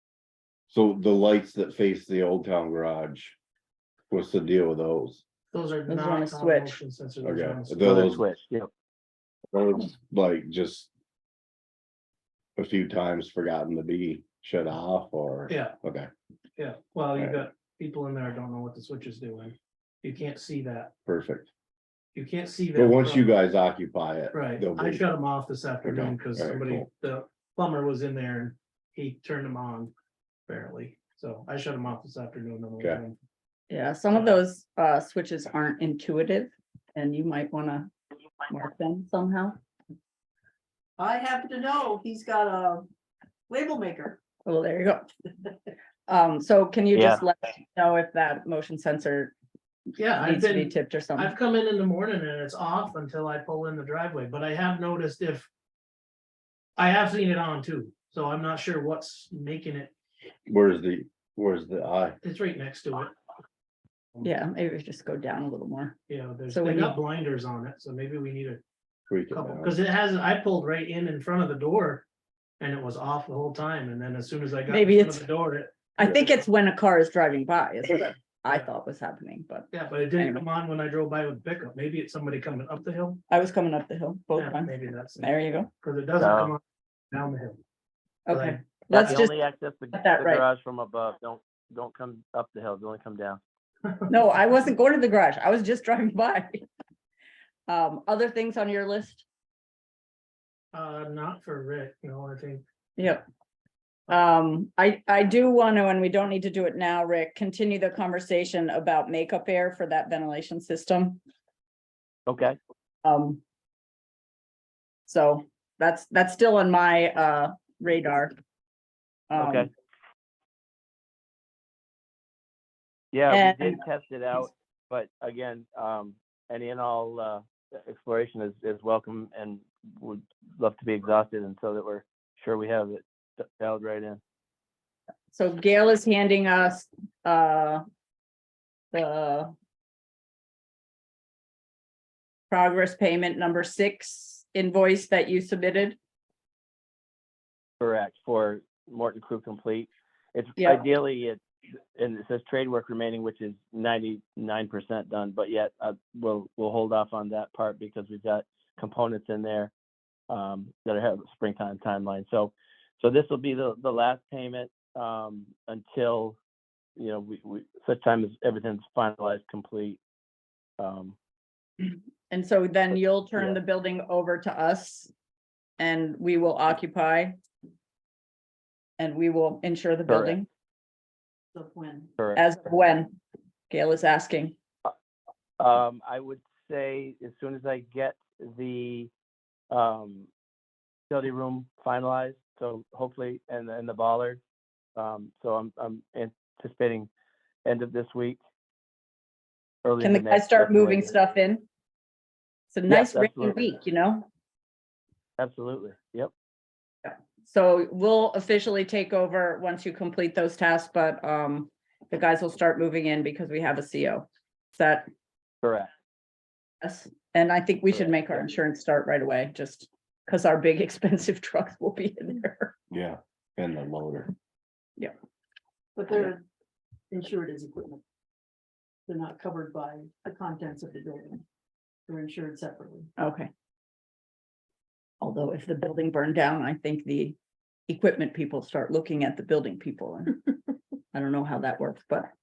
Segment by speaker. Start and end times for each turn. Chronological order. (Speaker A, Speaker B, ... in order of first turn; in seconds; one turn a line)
Speaker A: 0.7-3.4
Speaker A: 4.1-5.2
Speaker B: 5.5-8.1
Speaker C: 5.9-6.8
Speaker A: 7.2-8.2
Speaker D: 7.8-8.7
Speaker A: 9.5-10.9
Speaker A: 12.6-16.1
Speaker B: 15.5-15.7
Speaker B: 16.6-20.9
Speaker A: 21.1-21.5
Speaker B: 22.1-23.3
Speaker A: 22.8-25.0
Speaker B: 24.3-29.9
Speaker A: 25.8-26.9
Speaker B: 30.5-33.1
Speaker C: 33.7-37.9
Speaker B: 34.1-34.4
Speaker C: 38.5-39.6
Speaker E: 41.0-42.9
Speaker E: 43.5-44.2
Speaker C: 44.4-45.1
Speaker C: 46.1-49.3
Speaker D: 46.9-47.2
Speaker B: 50.0-55.5
Speaker C: 50.2-51.3
Speaker B: 56.8-59.9
Speaker A: 60.5-62.2
Speaker B: 62.2-63.1
Speaker C: 64.2-67.0
Speaker B: 66.1-68.6
Speaker A: 69.1-69.7
Speaker B: 69.3-72.0
Speaker B: 72.6-75.9
Speaker C: 74.7-75.3
Speaker C: 76.0-80.4
Speaker B: 79.7-83.2
Speaker C: 83.3-85.7
Speaker B: 84.3-87.6
Speaker D: 86.2-86.5
Speaker C: 88.3-89.3
Speaker B: 88.3-89.2
Speaker D: 88.9-93.4
Speaker C: 89.9-90.4
Speaker C: 94.1-96.6
Speaker C: 97.7-99.2
Speaker B: 100.7-102.6
Speaker C: 103.0-103.2
Speaker C: 104.1-111.2
Speaker D: 112.3-112.6
Speaker C: 113.0-113.4
Speaker C: 115.0-118.3
Speaker C: 119.3-119.7
Speaker D: 119.3-119.7
Speaker D: 123.1-134.2
Speaker C: 123.3-123.8
Speaker C: 135.3-137.8
Speaker C: 138.9-139.5
Speaker C: 142.5-146.0
Speaker D: 147.8-151.4
Speaker C: 150.6-150.8
Speaker D: 151.9-159.7
Speaker D: 160.3-166.4
Speaker D: 166.9-170.0
Speaker D: 170.8-171.2
Speaker C: 171.8-175.1
Speaker C: 175.8-177.4
Speaker C: 179.0-180.4
Speaker D: 180.1-180.4
Speaker E: 181.5-182.1
Speaker D: 182.2-182.5
Speaker C: 182.3-183.2
Speaker C: 183.7-184.5
Speaker D: 185.6-189.1
Speaker D: 189.7-190.3
Speaker D: 191.1-194.4
Speaker D: 194.9-197.1
Speaker D: 197.6-198.4
Speaker D: 199.8-201.2
Speaker C: 200.0-201.6
Speaker C: 202.7-204.2
Speaker D: 202.9-203.7
Speaker D: 205.4-206.3
Speaker C: 207.0-215.1
Speaker D: 215.6-215.9
Speaker C: 216.8-222.7
Speaker D: 217.9-218.5
Speaker A: 222.9-224.3
Speaker E: 225.9-226.4
Speaker E: 227.1-228.0
Speaker E: 229.1-231.4
Speaker E: 232.1-233.1
Speaker C: 233.2-233.5
Speaker C: 235.2-237.3
Speaker C: 237.9-240.5
Speaker C: 241.1-242.3